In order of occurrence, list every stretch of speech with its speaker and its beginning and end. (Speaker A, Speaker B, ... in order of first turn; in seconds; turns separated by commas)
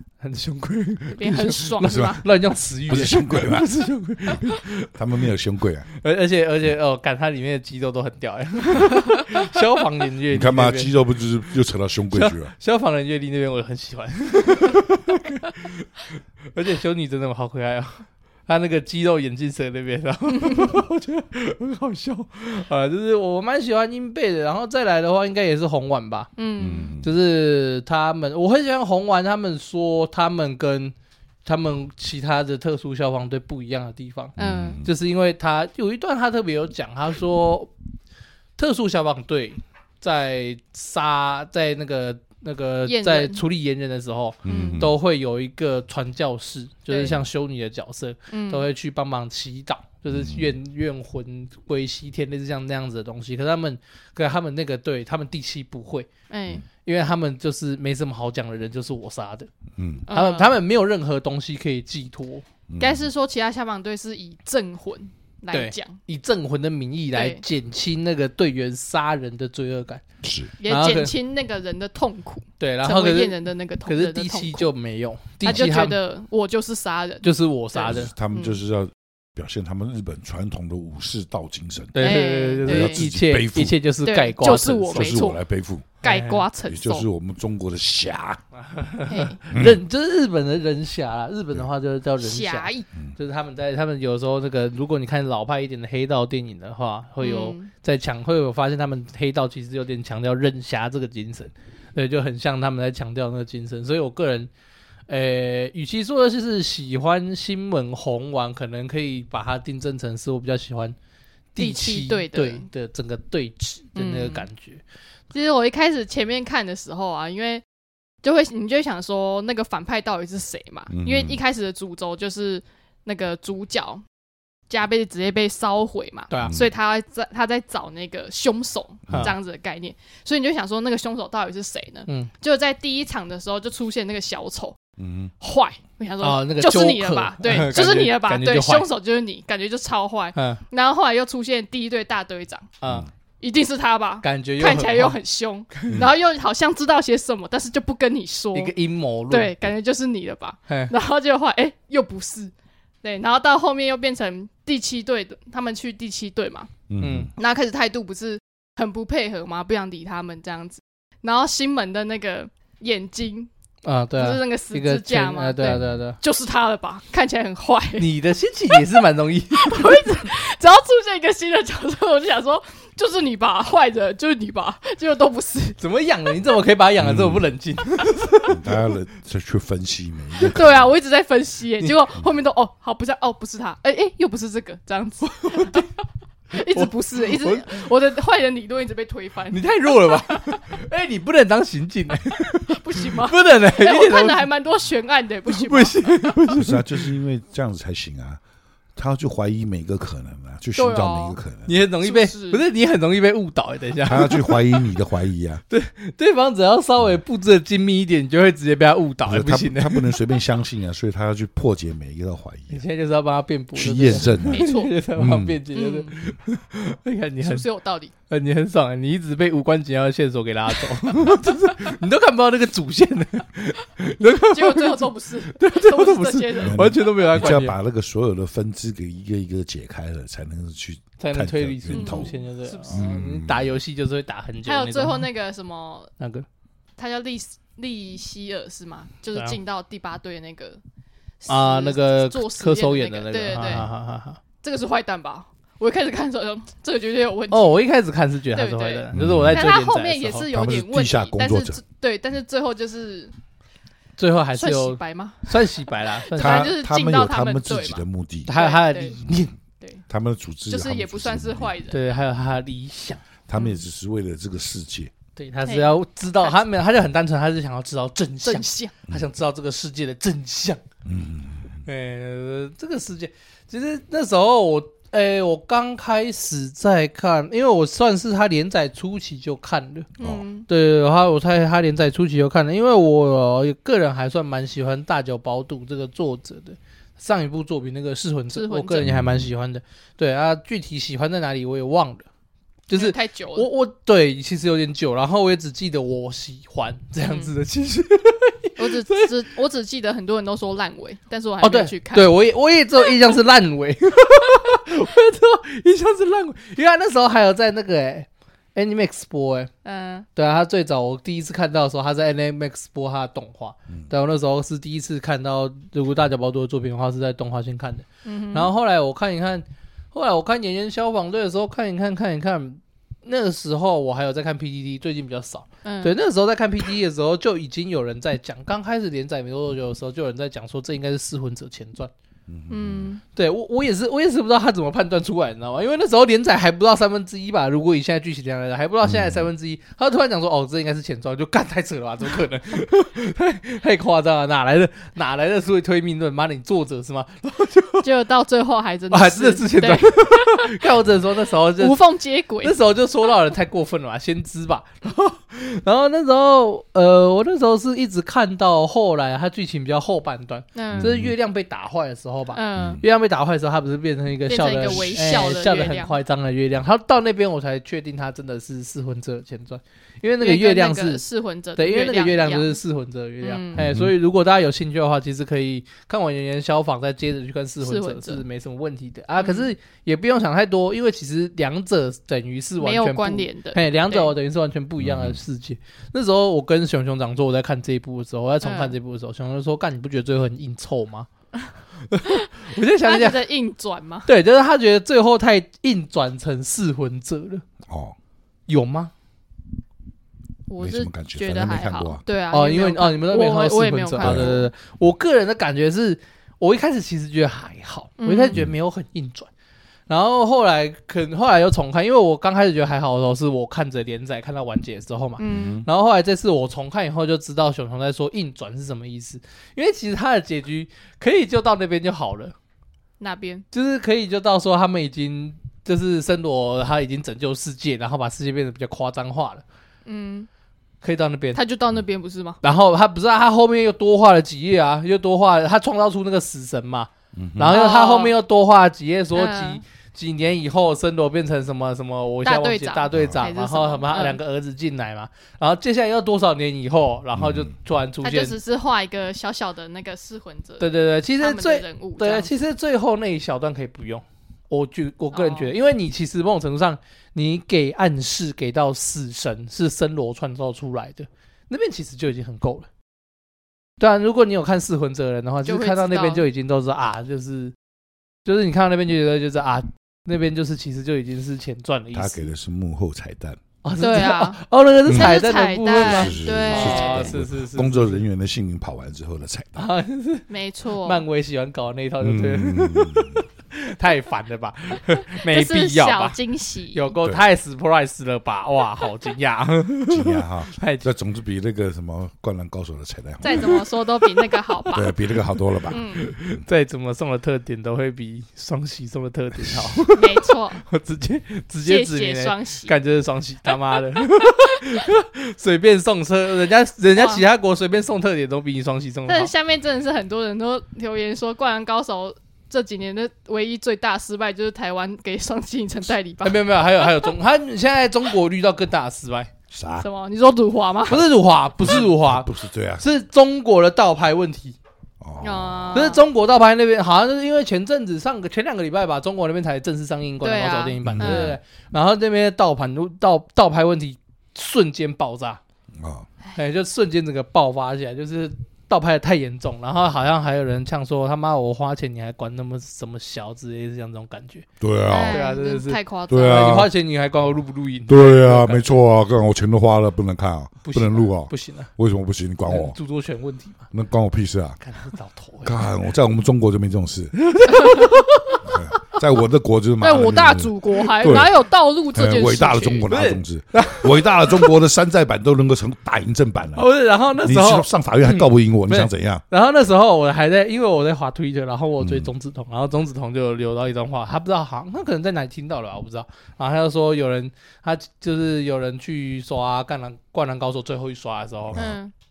Speaker A: 0.2-4.9, Speaker B: 1.2-2.2, Speaker C: 1.8-2.2, Speaker C: 2.9-3.7, Speaker C: 4.9-5.9, Speaker A: 5.9-10.9, Speaker C: 10.3-12.5, Speaker A: 12.1-26.3, Speaker B: 20.4-20.7, Speaker B: 26.4-26.9, Speaker C: 26.6-27.1, Speaker A: 27.0-30.9, Speaker A: 31.4-37.7, Speaker C: 34.4-34.9, Speaker B: 34.4-34.8, Speaker A: 38.6-56.1, Speaker B: 42.9-43.4, Speaker C: 44.5-44.9, Speaker B: 44.5-44.9, Speaker B: 46.9-47.2, Speaker B: 48.3-48.7, Speaker C: 50.1-50.5, Speaker B: 56.3-56.6, Speaker A: 56.8-59.5, Speaker C: 59.8-60.1, Speaker B: 60.1-60.6, Speaker A: 60.1-62.5, Speaker C: 62.7-63.1, Speaker B: 62.8-66.0, Speaker A: 65.5-70.0, Speaker B: 67.1-67.4, Speaker C: 70.2-70.5, Speaker B: 70.6-74.7, Speaker A: 70.7-71.2, Speaker A: 72.6-76.0, Speaker B: 75.4-78.6, Speaker A: 77.2-78.1, Speaker C: 77.9-83.8, Speaker A: 81.9-85.2, Speaker B: 82.0-83.0, Speaker B: 84.0-85.4, Speaker C: 84.6-86.0, Speaker B: 86.0-87.1, Speaker A: 86.0-86.5, Speaker C: 86.7-88.4, Speaker A: 88.5-104.5, Speaker B: 89.1-89.4, Speaker C: 89.5-89.8, Speaker B: 92.2-92.9, Speaker B: 97.2-97.7, Speaker A: 105.1-111.0, Speaker A: 111.5-114.8, Speaker B: 111.6-112.7, Speaker B: 114.0-114.5, Speaker B: 115.3-117.6, Speaker B: 118.2-124.0, Speaker C: 120.9-121.4, Speaker B: 124.7-134.8, Speaker A: 126.3-126.6, Speaker C: 135.0-135.3, Speaker B: 135.4-142.7, Speaker A: 136.2-138.9, Speaker A: 140.3-140.6, Speaker A: 142.8-143.1, Speaker B: 143.4-148.8, Speaker A: 144.2-145.2, Speaker A: 145.7-146.0, Speaker A: 148.5-149.5, Speaker B: 149.3-152.5, Speaker B: 153.0-156.7, Speaker C: 156.9-157.3, Speaker A: 157.0-157.3, Speaker B: 157.4-163.5, Speaker A: 163.8-166.2, Speaker B: 164.2-168.1, Speaker A: 168.0-170.1, Speaker B: 168.7-169.0, Speaker B: 169.5-175.8, Speaker A: 175.8-178.6, Speaker C: 177.0-177.5, Speaker C: 178.5-180.9, Speaker B: 180.4-185.9, Speaker A: 185.2-185.9, Speaker B: 186.5-190.7, Speaker A: 186.5-187.9, Speaker A: 189.5-194.5, Speaker B: 192.3-196.3, Speaker A: 195.5-197.1, Speaker C: 196.6-198.4, Speaker C: 198.9-201.8, Speaker B: 200.8-201.4, Speaker A: 201.7-204.8, Speaker B: 202.0-202.6, Speaker C: 204.1-205.6, Speaker A: 205.7-210.2, Speaker C: 209.3-212.8, Speaker A: 212.7-217.6, Speaker C: 213.8-214.6, Speaker B: 214.5-214.9, Speaker C: 215.2-215.6, Speaker B: 215.7-216.2, Speaker B: 217.4-218.1, Speaker A: 218.3-227.8, Speaker B: 224.5-227.0, Speaker C: 226.6-232.3, Speaker A: 231.2-235.3, Speaker B: 231.9-233.1, Speaker C: 232.9-233.8, Speaker B: 234.7-236.1, Speaker A: 236.2-236.5, Speaker B: 237.0-240.8, Speaker B: 241.4-243.9, Speaker A: 241.5-244.4, Speaker C: 243.6-243.9, Speaker B: 244.6-247.7, Speaker A: 247.5-250.5, Speaker B: 248.6-253.3, Speaker C: 249.1-249.8, Speaker C: 250.5-251.8, Speaker A: 254.2-256.8, Speaker B: 254.6-259.2, Speaker C: 256.4-258.5, Speaker A: 258.5-259.5, Speaker C: 260.1-261.7, Speaker B: 260.7-262.0, Speaker A: 261.9-263.2, Speaker C: 263.5-265.1, Speaker B: 263.5-263.8, Speaker A: 265.4-270.8, Speaker B: 265.6-266.6, Speaker B: 268.4-268.9, Speaker C: 271.1-271.8, Speaker A: 271.9-280.1, Speaker B: 280.2-280.7, Speaker A: 280.7-292.3, Speaker B: 288.5-289.1, Speaker C: 289.0-289.5, Speaker A: 292.9-299.3, Speaker B: 292.9-293.7, Speaker B: 297.2-297.5, Speaker B: 298.8-302.3, Speaker A: 301.6-309.7, Speaker B: 309.8-310.3, Speaker A: 310.4-332.1, Speaker B: 318.2-318.7, Speaker B: 325.8-326.1, Speaker C: 332.5-333.1, Speaker B: 332.7-333.2, Speaker A: 333.3-348.1, Speaker C: 339.0-339.5, Speaker B: 348.0-350.7, Speaker A: 349.1-352.0, Speaker B: 351.8-352.8, Speaker A: 352.6-371.2, Speaker B: 360.8-361.1, Speaker C: 360.9-361.3, Speaker B: 362.5-363.0, Speaker C: 362.8-363.0, Speaker B: 364.5-366.2, Speaker C: 364.9-365.2, Speaker B: 370.4-372.8, Speaker A: 371.8-391.3, Speaker B: 373.4-373.8, Speaker C: 373.8-374.1, Speaker B: 377.8-378.4, Speaker B: 379.4-379.7, Speaker B: 382.8-384.3, Speaker C: 385.0-385.4, Speaker B: 388.6-388.9, Speaker A: 392.1-393.4, Speaker B: 393.0-394.3, Speaker A: 394.3-397.6, Speaker C: 397.9-398.2, Speaker A: 398.7-399.1, Speaker B: 400.7-404.7, Speaker C: 400.8-402.2, Speaker A: 402.5-409.5, Speaker C: 404.2-404.5, Speaker B: 408.2-408.6, Speaker A: 410.1-422.6, Speaker B: 415.4-415.8, Speaker C: 415.5-415.9, Speaker B: 423.2-423.6, Speaker A: 423.7-429.6, Speaker B: 430.1-430.5, Speaker A: 431.0-431.6, Speaker B: 431.5-432.6, Speaker A: 432.6-448.6, Speaker C: 437.3-437.8, Speaker B: 437.7-438.3, Speaker B: 439.3-439.8, Speaker B: 442.4-444.4, Speaker C: 443.1-443.4, Speaker C: 447.4-447.7, Speaker B: 448.2-452.5, Speaker A: 450.8-462.9, Speaker B: 455.3-455.7, Speaker A: 464.0-467.8, Speaker B: 465.6-466.5, Speaker A: 468.4-472.5, Speaker C: 472.1-473.6, Speaker A: 473.8-478.2, Speaker B: 474.0-477.3, Speaker C: 475.1-479.9, Speaker A: 479.8-480.5, Speaker B: 480.5-481.2, Speaker A: 481.0-486.4, Speaker C: 482.2-483.4, Speaker B: 485.4-487.1, Speaker A: 486.9-491.1, Speaker C: 490.1-493.8, Speaker B: 493.4-495.2, Speaker C: 494.9-496.6, Speaker B: 495.9-496.3, Speaker A: 495.9-509.5, Speaker B: 500.1-500.8, Speaker B: 501.9-502.9, Speaker B: 507.2-507.4, Speaker B: 509.3-517.3, Speaker A: 516.4-519.5, Speaker C: 519.7-520.1, Speaker B: 520.0-521.2, Speaker A: 521.1-524.8, Speaker C: 521.8-523.0, Speaker C: 525.2-526.1, Speaker B: 525.4-526.2, Speaker A: 525.9-535.6, Speaker B: 530.4-531.6, Speaker C: 531.0-531.6, Speaker C: 536.0-536.3, Speaker A: 536.5-544.7, Speaker C: 544.8-545.4, Speaker B: 545.1-546.9, Speaker A: 545.2-549.0, Speaker C: 546.3-546.9, Speaker C: 548.1-553.0, Speaker A: 550.8-551.9, Speaker A: 552.7-553.9, Speaker C: 553.9-554.8, Speaker A: 554.8-555.9, Speaker C: 555.6-557.4, Speaker A: 557.4-558.8, Speaker C: 558.6-569.4, Speaker B: 560.0-563.1, Speaker A: 563.1-564.7, Speaker A: 566.8-581.9, Speaker C: 572.0-572.3, Speaker B: 581.8-582.1